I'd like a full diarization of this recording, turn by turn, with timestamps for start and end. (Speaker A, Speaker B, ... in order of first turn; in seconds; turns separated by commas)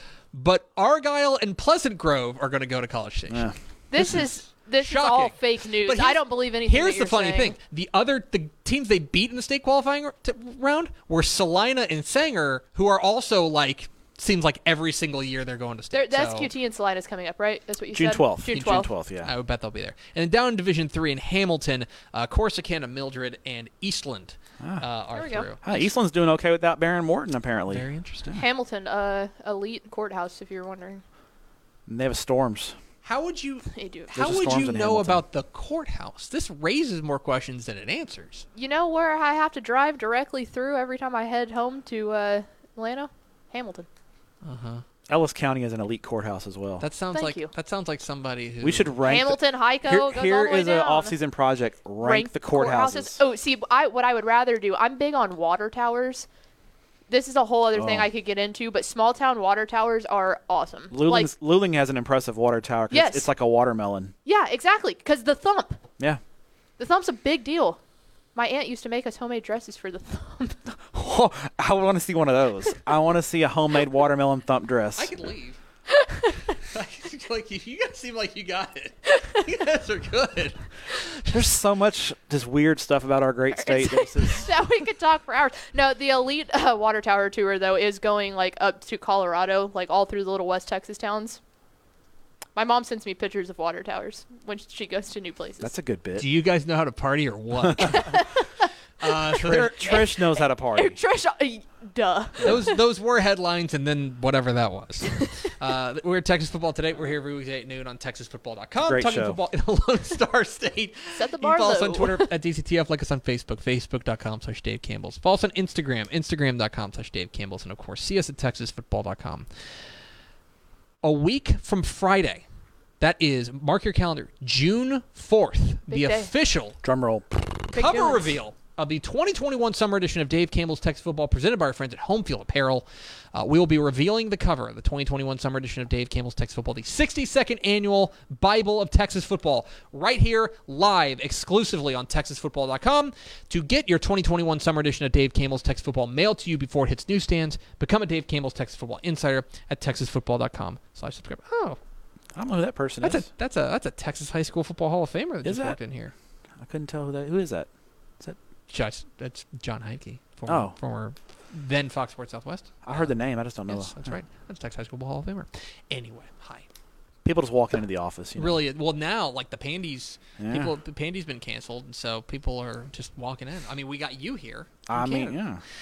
Speaker A: 0.3-4.2, Speaker B: 3.3-3.5, Speaker C: 3.9-7.6, Speaker A: 4.8-16.5, Speaker C: 15.9-18.9, Speaker B: 17.9-19.3, Speaker A: 18.5-25.8, Speaker C: 25.1-25.5, Speaker B: 25.6-28.4, Speaker A: 27.7-28.4, Speaker C: 28.3-31.0, Speaker B: 31.9-32.8, Speaker A: 33.0-38.5, Speaker C: 33.7-34.2, Speaker B: 34.1-35.2, Speaker C: 38.5-43.9, Speaker A: 44.4-44.8, Speaker B: 45.1-46.8, Speaker A: 46.8-49.1, Speaker C: 47.1-47.5, Speaker B: 48.6-53.2, Speaker C: 49.0-51.1, Speaker C: 52.0-56.3, Speaker C: 57.1-61.3, Speaker B: 57.7-58.1, Speaker B: 60.9-64.1, Speaker C: 62.9-63.3, Speaker C: 64.2-65.8, Speaker C: 66.8-67.8, Speaker C: 68.3-70.7, Speaker B: 70.9-75.1, Speaker A: 75.0-75.6, Speaker C: 75.9-76.5, Speaker A: 76.7-81.4, Speaker B: 81.2-84.5, Speaker C: 83.5-91.4, Speaker C: 92.5-95.7, Speaker B: 95.6-96.3, Speaker A: 96.2-98.2, Speaker B: 97.7-97.9, Speaker C: 97.8-98.7, Speaker A: 99.0-100.0, Speaker B: 99.3-101.0, Speaker C: 99.8-102.8, Speaker A: 102.4-119.5, Speaker C: 105.1-105.4, Speaker B: 108.8-109.4, Speaker C: 111.1-112.3, Speaker A: 121.0-122.4, Speaker A: 123.0-126.8, Speaker C: 125.9-126.3, Speaker B: 126.8-127.8, Speaker A: 127.7-151.8, Speaker C: 127.7-128.3, Speaker B: 152.3-153.2, Speaker A: 153.0-156.1, Speaker B: 155.4-155.8, Speaker B: 156.6-157.7, Speaker A: 158.7-163.1, Speaker B: 160.5-160.7, Speaker B: 162.8-164.2, Speaker A: 163.7-166.6, Speaker B: 167.2-168.6, Speaker A: 168.3-175.4, Speaker B: 170.4-170.7, Speaker B: 174.9-175.6